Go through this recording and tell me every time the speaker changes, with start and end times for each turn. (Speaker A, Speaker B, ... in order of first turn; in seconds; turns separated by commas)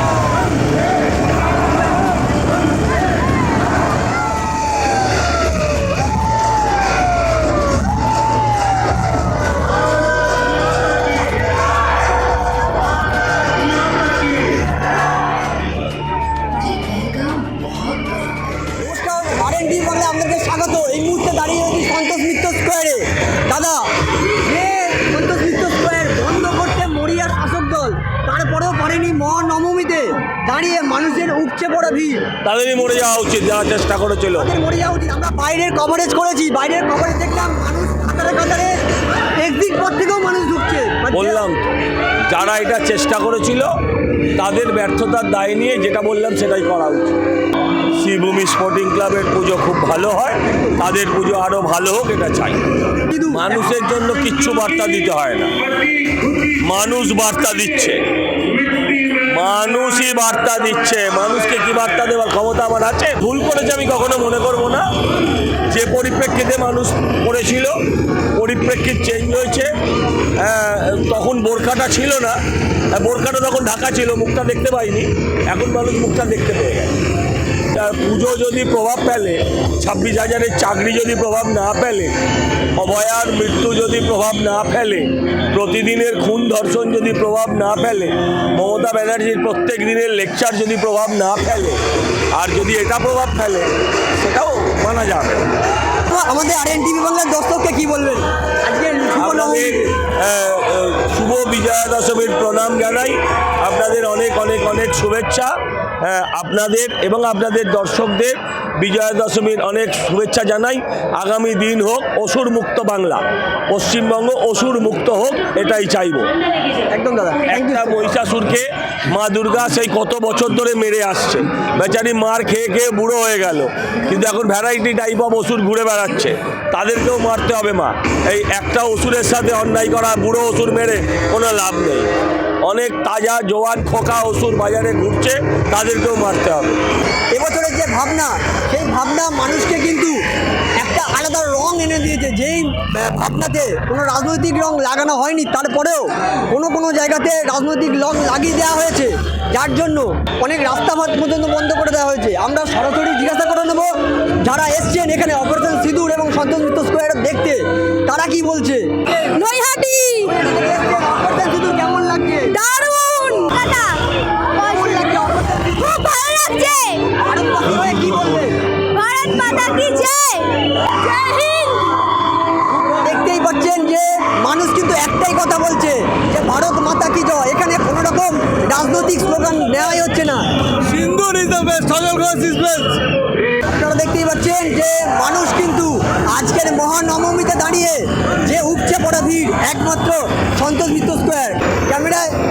Speaker A: 18.8-32.2, Speaker B: 32.4-34.5, Speaker A: 34.3-38.7, Speaker A: 39.4-41.4, Speaker B: 41.1-41.7, Speaker B: 42.3-43.7, Speaker B: 44.4-47.2, Speaker B: 47.9-52.7, Speaker A: 53.1-53.4, Speaker B: 53.3-58.0, Speaker B: 58.7-64.9, Speaker B: 65.7-67.8, Speaker B: 68.3-69.7, Speaker B: 70.3-72.4, Speaker B: 72.9-76.9, Speaker B: 77.7-82.1, Speaker B: 82.8-91.8, Speaker B: 92.3-95.5, Speaker A: 96.1-99.9, Speaker B: 99.2-116.3, Speaker A: 116.9-118.0, Speaker B: 117.5-132.1, Speaker B: 132.6-136.8, Speaker A: 137.3-140.2, Speaker A: 140.8-159.2, Speaker C: 159.3-160.3, Speaker A: 160.2-162.6, Speaker C: 162.5-164.0, Speaker A: 164.6-165.9, Speaker C: 165.7-167.1, Speaker A: 167.2-168.6, Speaker C: 168.9-172.0, Speaker A: 172.9-182.9, Speaker A: 183.6-192.3